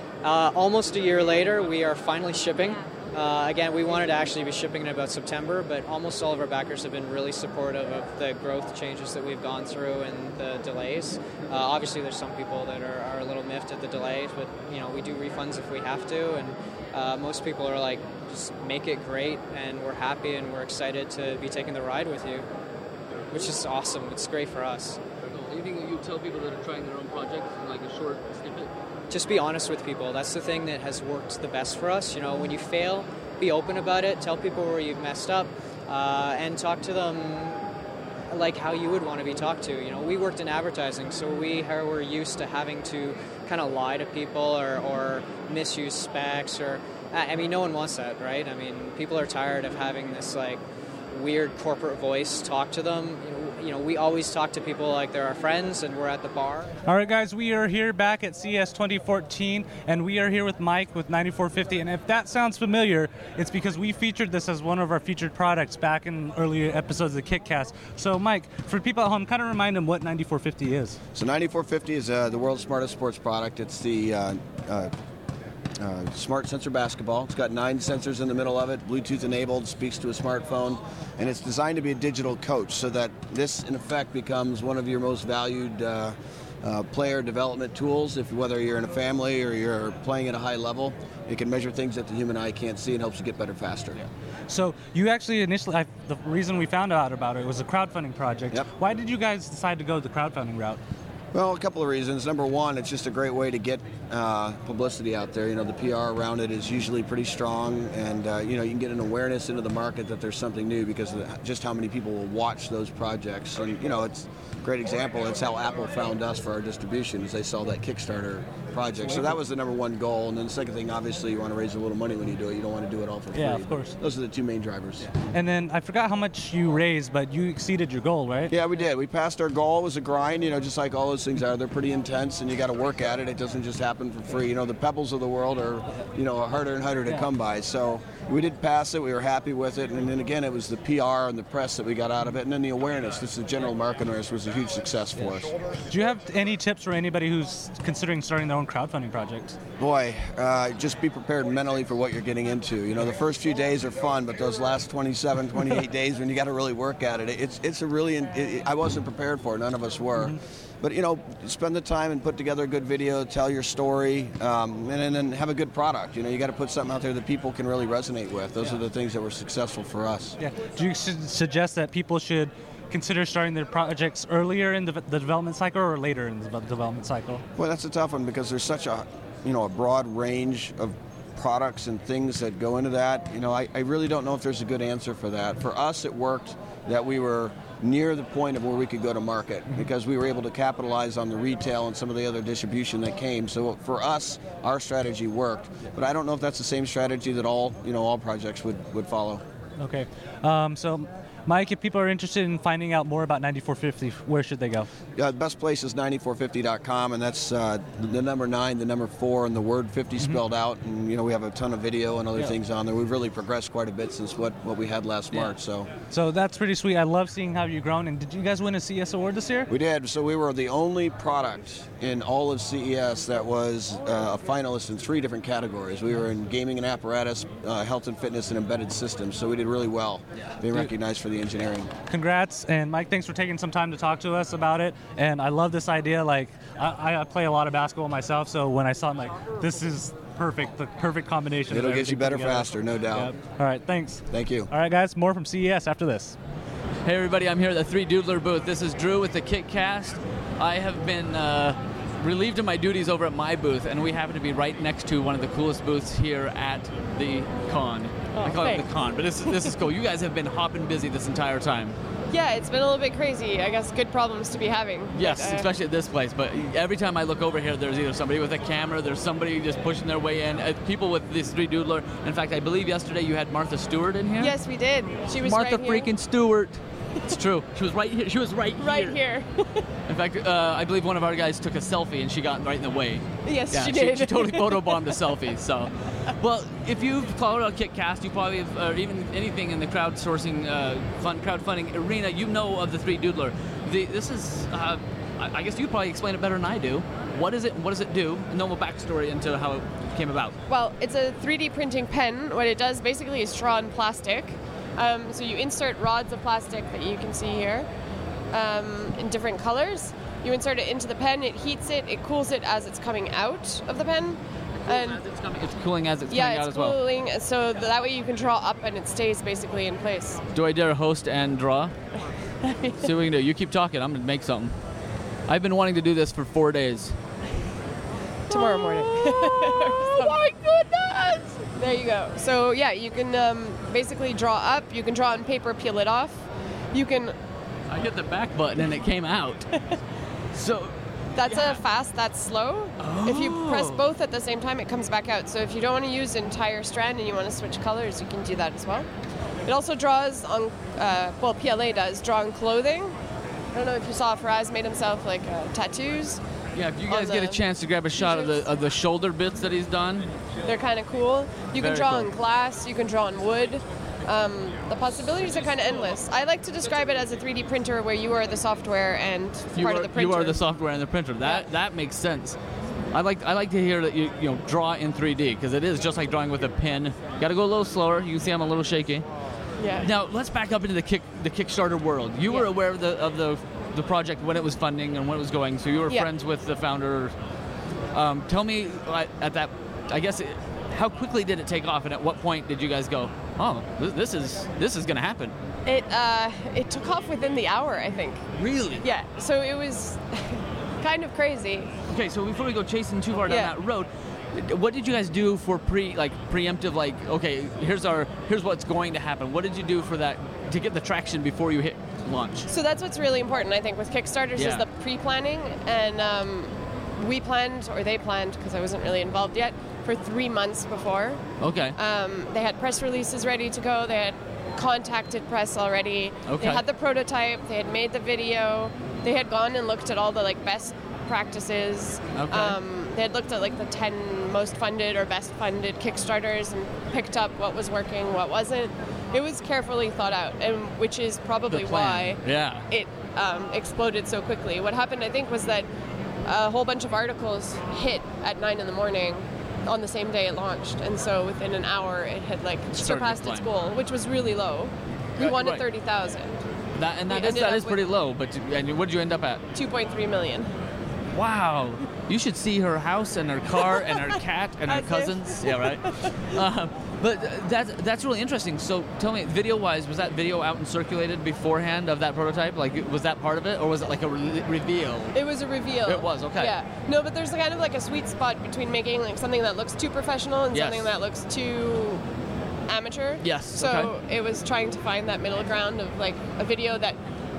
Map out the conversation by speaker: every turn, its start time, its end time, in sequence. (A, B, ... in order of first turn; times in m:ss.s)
0:00.2-0:22.5 A
0:23.2-0:23.6 B
0:23.3-0:25.0 A
0:25.2-0:28.7 B
0:29.1-0:37.6 A
0:38.3-0:56.7 A
0:56.9-1:11.0 C
1:11.2-1:14.9 D
1:15.8-1:34.0 D
1:34.5-1:40.8 C
1:41.3-2:05.1 D
2:03.4-2:04.0 C
2:05.3-2:08.5 C
2:08.5-2:25.6 D
2:25.9-2:29.6 C
2:29.8-2:50.4 D
2:50.4-2:57.4 C
2:57.6-3:19.4 D
3:19.8-3:24.9 C
3:25.2-3:35.9 D
3:36.1-3:39.7 C
3:39.7-3:51.9 D
3:52.1-4:06.4 C
4:01.7-4:03.3 D
4:04.3-4:04.7 D
4:07.0-4:22.0 E
4:18.3-4:18.9 F
4:22.3-4:25.7 F
4:25.1-4:34.6 E
4:34.4-4:36.1 F
4:35.4-4:39.2 E
4:38.8-4:39.9 F
4:40.1-5:00.6 E
4:43.5-4:45.2 F
5:00.7-5:07.9 F
5:08.5-5:15.2 F
5:14.9-5:17.0 E
5:16.3-5:20.4 F
5:20.5-5:21.9 E
5:22.6-5:23.1 F
5:23.0-5:24.8 E
5:25.5-5:27.2 E
5:28.5-5:30.4 F
5:28.5-5:29.0 E
5:29.7-5:31.6 E
5:31.8-5:37.4 F
5:37.9-5:39.8 E
5:40.5-5:41.8 E
5:41.4-5:49.1 F
5:43.0-5:44.1 E
5:49.6-5:53.2 F
5:53.7-5:56.4 F
5:56.7-6:00.3 E
5:57.1-5:57.6 F
5:58.1-5:58.6 F
6:00.6-6:10.6 F
6:01.8-6:02.3 E
6:09.8-6:12.6 E
6:11.4-6:11.7 F
6:13.1-6:19.2 E
6:19.8-6:20.1 F
6:20.0-6:27.3 E
6:28.1-6:35.6 E
6:35.9-6:38.4 F
6:38.6-6:39.0 E
6:39.0-6:41.9 F
6:42.1-6:52.7 E
6:43.5-6:43.7 F
6:52.7-7:01.4 F
6:54.6-6:54.9 E
7:01.6-7:02.0 E
7:02.0-7:25.9 F
7:06.5-7:06.8 E
7:12.3-7:12.8 E
7:21.7-7:22.8 E
7:26.4-7:36.6 F
7:32.9-7:33.7 E
7:35.4-7:35.8 E
7:37.0-7:39.6 E
7:37.3-7:38.0 F
7:39.8-7:40.7 F
7:41.3-7:55.4 E
7:44.9-7:46.4 F
7:55.3-8:02.2 F
7:56.1-7:56.8 E
8:00.7-8:01.2 E
8:02.9-8:07.2 F
8:03.4-8:04.1 E